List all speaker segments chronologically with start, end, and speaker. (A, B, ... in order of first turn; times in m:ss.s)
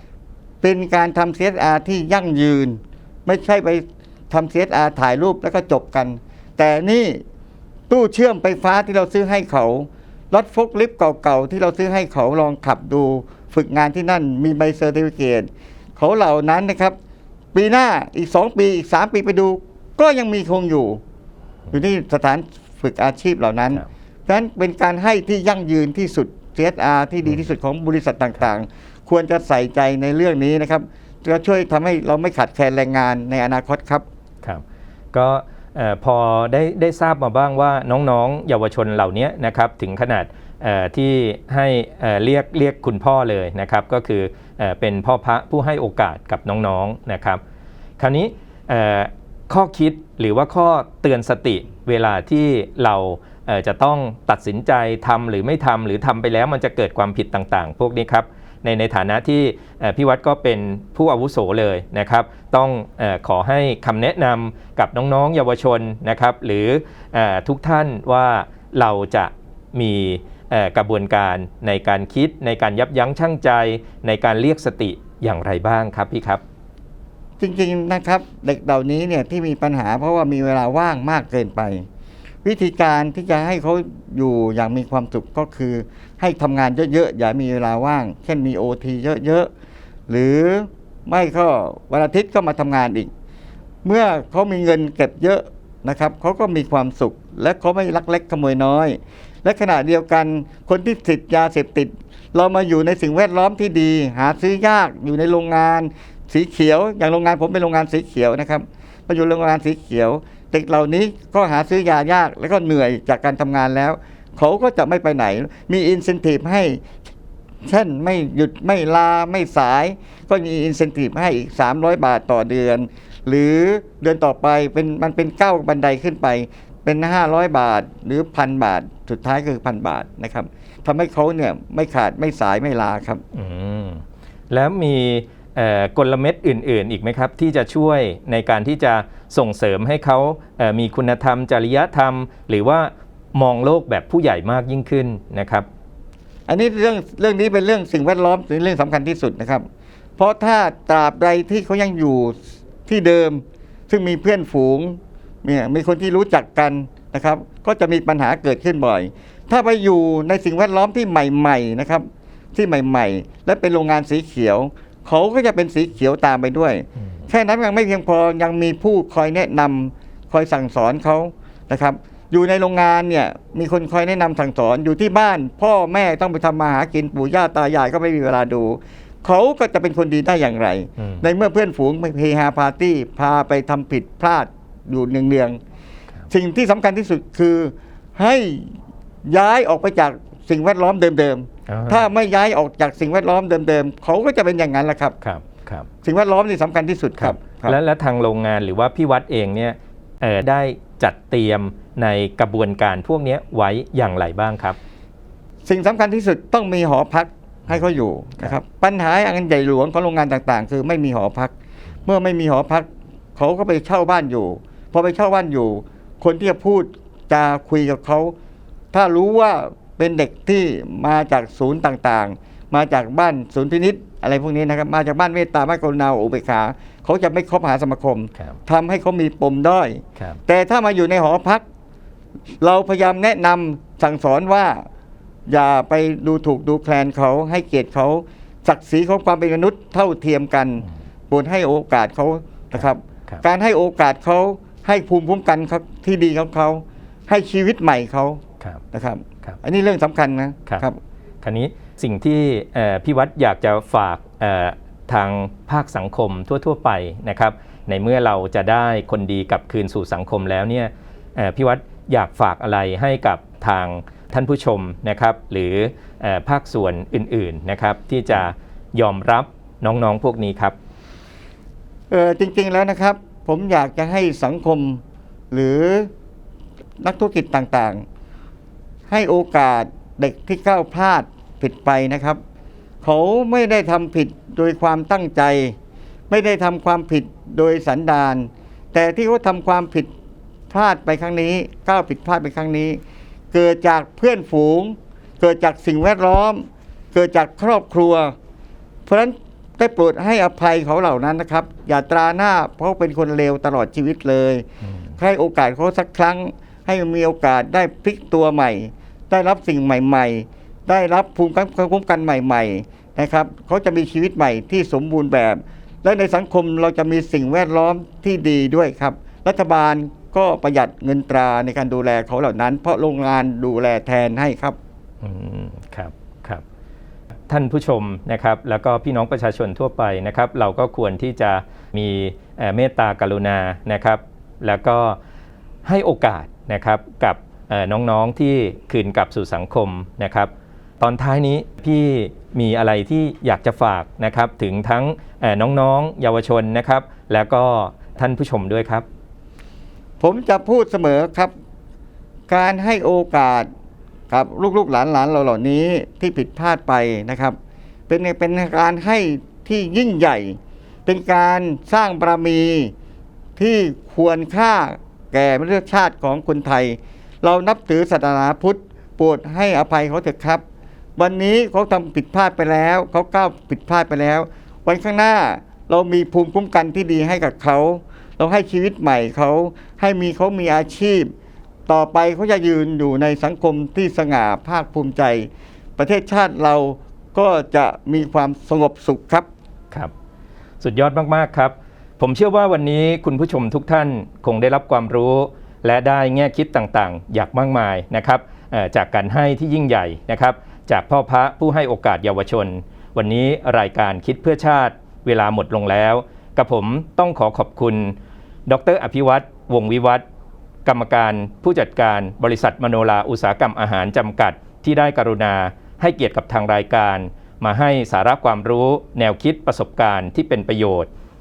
0:00.6-0:07.2 A
0:07.9-0:17.0 A
0:17.5-0:21.0 A
0:21.7-0:34.0 A
0:34.4-0:47.4 B
0:48.0-1:16.4 B
1:17.4-1:21.9 A
1:22.4-1:29.5 A
1:30.1-1:33.1 A
1:33.8-1:56.8 A
1:57.6-2:13.2 A
2:13.3-2:25.7 B
2:26.5-2:29.7 A
2:30.2-3:05.6 A
3:06.3-3:15.2 A
3:11.7-3:12.0 B
3:15.2-3:15.9 B
3:16.0-3:17.8 A
3:17.2-3:24.8 B
3:25.6-3:31.5 A
3:32.0-3:38.3 A
3:38.9-3:51.6 A
3:52.6-3:54.9 A
3:55.5-4:08.4 A
4:02.8-4:03.4 B
4:08.9-4:11.0 A
4:11.4-4:30.8 B
4:32.1-4:36.1 A
4:37.0-4:38.0 A
4:39.1-4:42.4 A
4:43.0-4:45.8 A
4:46.3-4:50.1 A
4:50.7-4:53.0 A
4:53.5-4:58.4 A
4:59.1-5:04.7 A
5:04.8-5:05.1 B
5:05.2-5:24.8 A
5:25.2-5:26.6 B
5:27.5-5:35.2 B
5:35.8-5:49.1 B
5:50.2-5:51.5 A
5:52.5-5:53.7 A
5:54.3-5:57.6 A
5:58.1-6:02.9 A
6:03.6-6:10.6 A
6:11.2-6:21.3 A
6:21.9-6:29.5 A
6:30.8-6:48.2 B
6:48.7-6:50.2 B
6:50.8-7:01.1 B